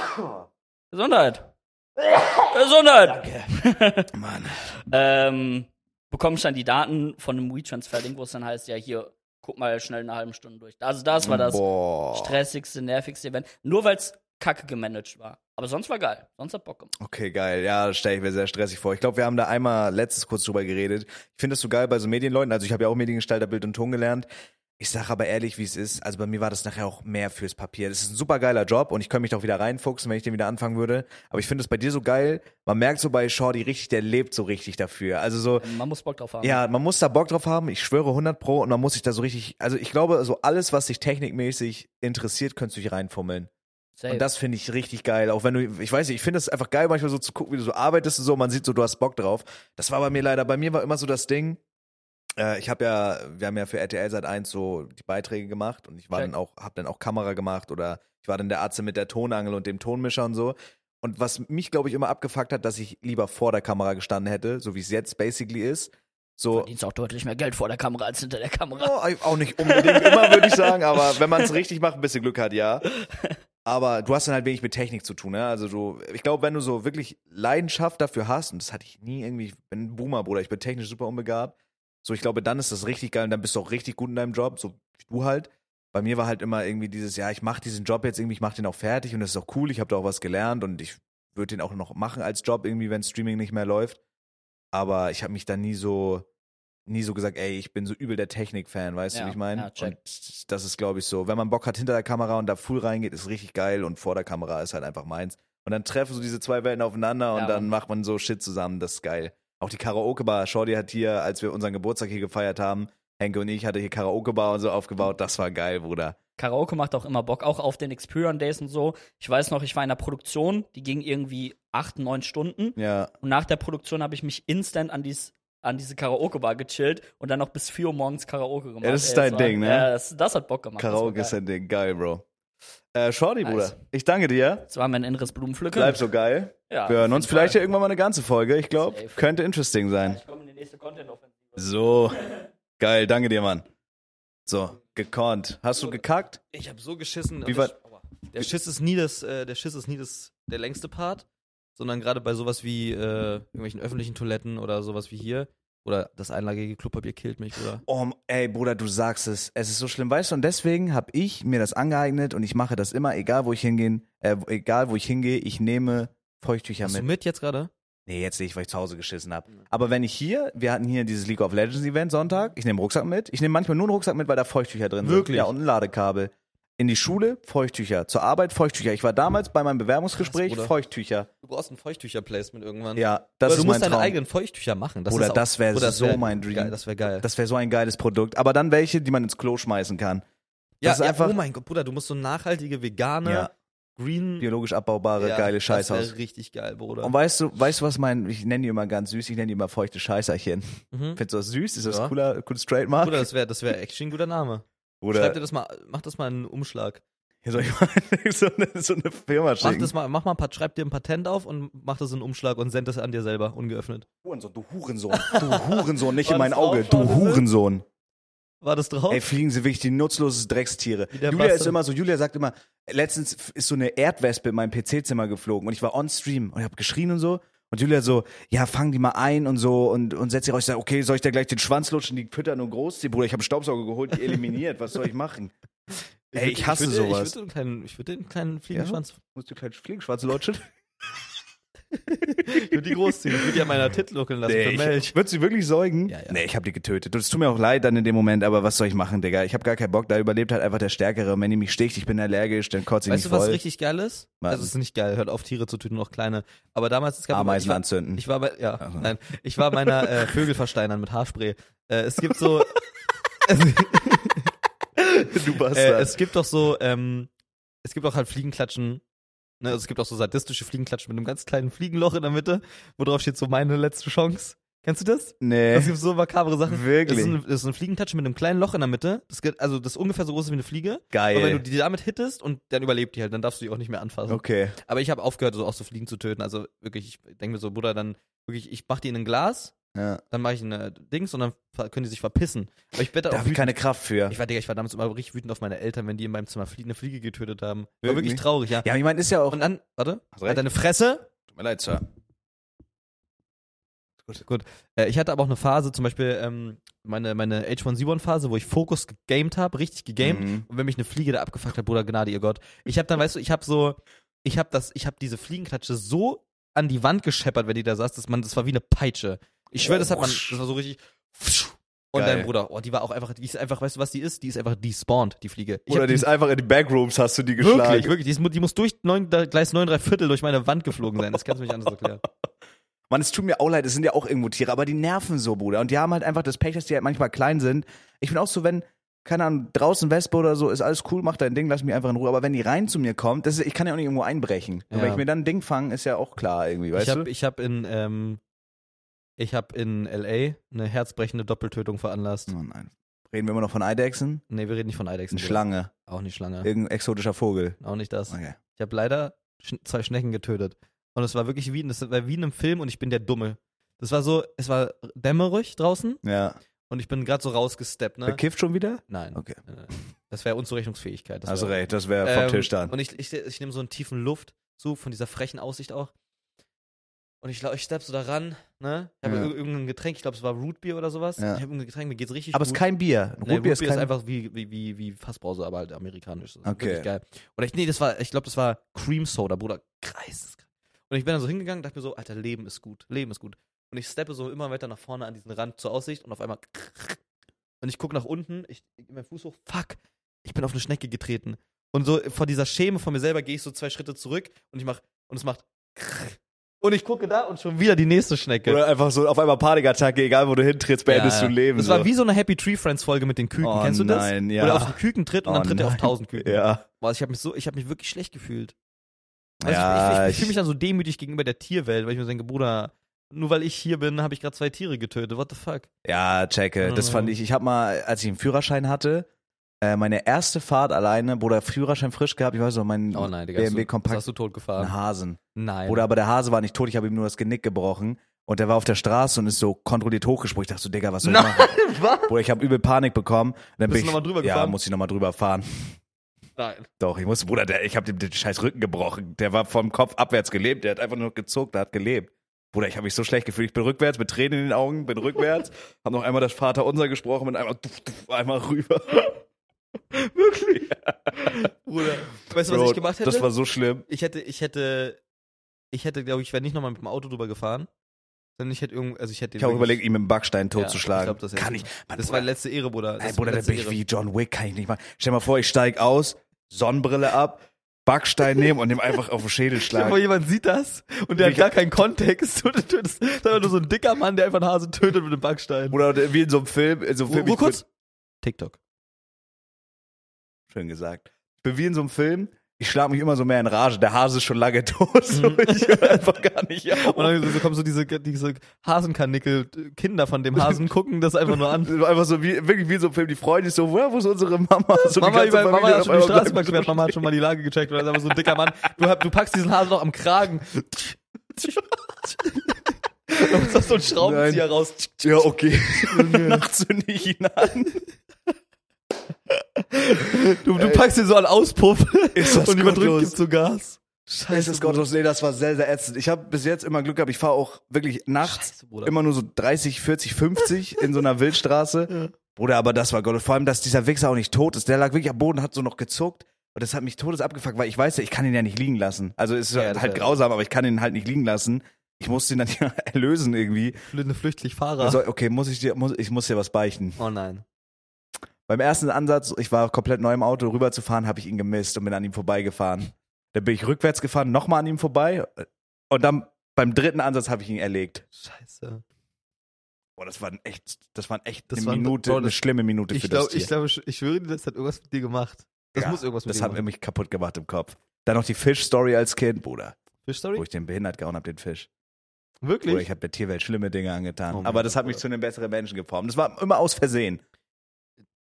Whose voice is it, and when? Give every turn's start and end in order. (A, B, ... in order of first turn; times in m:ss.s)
0:00.9-0:04.1 A
0:04.1-0:04.6 B
0:04.8-0:16.9 A
0:11.2-0:12.4 B
0:17.0-0:24.3 B
0:24.8-0:35.7 B
0:35.6-0:36.6 A
0:36.4-0:43.5 B
0:44.0-0:44.2 A
0:44.1-0:51.6 B
0:52.4-1:06.7 B
1:06.5-1:09.0 A
1:08.8-1:12.8 B
1:09.6-1:11.5 A
1:13.6-1:34.0 B
1:34.7-1:36.3 B
1:36.9-1:56.2 B
1:39.1-1:39.9 A
1:47.3-1:47.7 A
1:56.4-2:11.3 A
2:02.8-2:03.1 B
2:08.8-2:09.9 B
2:10.8-2:12.2 B
2:12.9-2:14.6 B
2:13.4-2:13.7 A
2:14.7-2:16.0 A
2:15.7-2:20.2 B
2:16.7-2:17.6 A
2:18.8-2:19.2 A
2:20.0-2:21.6 A
2:21.6-2:22.2 B
2:22.8-2:23.6 B
2:24.5-2:26.4 B
2:26.5-2:37.8 C
2:27.4-2:27.7 B
2:37.8-2:47.0 B
2:46.8-2:47.7 C
2:48.0-3:01.3 B
2:55.0-2:55.5 C
3:00.2-3:00.7 C
3:01.4-3:07.2 C
3:03.0-3:04.2 B
3:05.1-3:10.2 B
3:10.8-3:14.5 C
3:10.8-3:11.4 B
3:13.2-3:13.5 B
3:14.4-3:16.1 B
3:15.2-3:17.1 C
3:17.0-3:23.3 B
3:20.9-3:21.2 C
3:21.8-3:22.1 C
3:23.0-3:27.0 C
3:25.0-3:25.4 B
3:27.4-3:29.9 B
3:29.6-3:34.0 C
3:34.2-3:37.8 B
3:35.1-3:37.4 C
3:38.6-3:39.2 C
3:39.1-3:55.5 B
3:41.1-3:41.8 C
3:56.3-3:59.2 C
3:56.3-3:57.3 B
3:58.7-4:00.7 B
4:01.9-4:05.1 C
4:02.3-4:03.6 B
4:04.4-4:13.6 B
4:06.1-4:06.4 C
4:13.1-4:22.8 C
4:14.4-4:14.7 B
4:17.3-4:18.2 B
4:18.8-4:19.1 B
4:19.7-4:20.3 B
4:23.4-4:27.3 C
4:25.3-4:26.2 B
4:27.8-4:29.0 C
4:29.6-4:49.7 C
4:35.4-4:35.9 B
4:36.7-4:37.4 B
4:41.1-4:41.6 B
4:44.3-4:44.8 B
4:49.9-4:50.2 B
4:50.3-4:53.8 C
4:53.3-4:54.4 B
4:54.3-4:58.9 C
4:58.0-4:59.6 B
4:59.5-5:01.3 C
5:00.3-5:00.6 B
5:01.5-5:02.0 B
5:04.4-5:26.2 C
5:10.2-5:10.6 B
5:19.8-5:20.6 B
5:22.1-5:22.5 B
5:25.9-5:28.1 B
5:27.6-5:32.2 C
5:33.1-5:47.3 B
5:44.9-5:45.2 C
5:46.9-5:48.4 C
5:49.4-5:52.5 C
5:52.5-5:54.4 B
5:54.5-5:56.7 C
5:55.3-5:55.9 B
5:56.6-5:57.8 B
5:57.8-6:06.2 C
5:58.3-5:58.6 B
6:06.2-6:06.6 B
6:06.9-6:08.4 C
6:08.2-6:09.6 B
6:09.1-6:16.1 C
6:11.5-6:12.9 B
6:17.4-6:22.8 C
6:19.2-6:19.5 B
6:22.5-6:24.1 B
6:23.4-6:37.2 C
6:26.6-6:27.1 B
6:37.8-6:48.8 C
6:48.6-6:52.1 B
6:51.1-6:58.7 C
6:53.6-6:56.8 B
6:59.6-7:00.5 B
6:59.6-7:05.9 C
7:06.0-7:09.3 B
7:06.8-7:07.3 C
7:09.8-7:14.2 B
7:13.1-7:14.9 C
7:14.8-7:26.0 B
7:15.5-7:16.0 C
7:21.2-7:22.3 C
7:23.9-7:24.8 C
7:26.6-7:26.9 C
7:27.0-7:39.4 B
7:40.3-7:40.8 C
7:40.6-7:41.7 B
7:41.3-7:43.5 C
7:42.5-7:44.0 B
7:44.1-7:45.2 C
7:45.9-7:47.9 C
7:48.6-7:50.0 C
7:49.6-7:52.5 B
7:50.7-7:54.0 C
7:53.2-8:00.2 B
7:59.9-8:06.0 C
8:01.4-8:01.7 B
8:05.9-8:07.8 B
8:07.3-8:07.8 C
8:08.4-8:08.8 C
8:10.7-8:17.6 B
8:15.3-8:16.2 C
8:16.9-8:21.9 C
8:21.5-8:27.2 B
8:25.2-8:35.4 C
8:33.7-8:38.0 B
8:36.0-8:36.6 C
8:39.5-8:45.0 C
8:40.7-8:41.1 B
8:42.3-8:43.4 B
8:44.5-9:04.0 B
8:48.4-8:49.1 C
8:59.7-9:00.4 C
9:04.1-9:05.2 C
9:05.0-9:07.2 B
9:07.2-9:07.6 C
9:08.7-9:18.2 B
9:18.3-9:19.0 C
9:20.2-9:23.7 B
9:21.7-9:22.6 C
9:23.1-9:26.8 C
9:26.0-9:30.0 B
9:30.2-9:30.6 C
9:30.6-9:31.9 B
9:32.6-9:33.1 C
9:32.8-9:37.4 B
9:34.5-9:35.2 C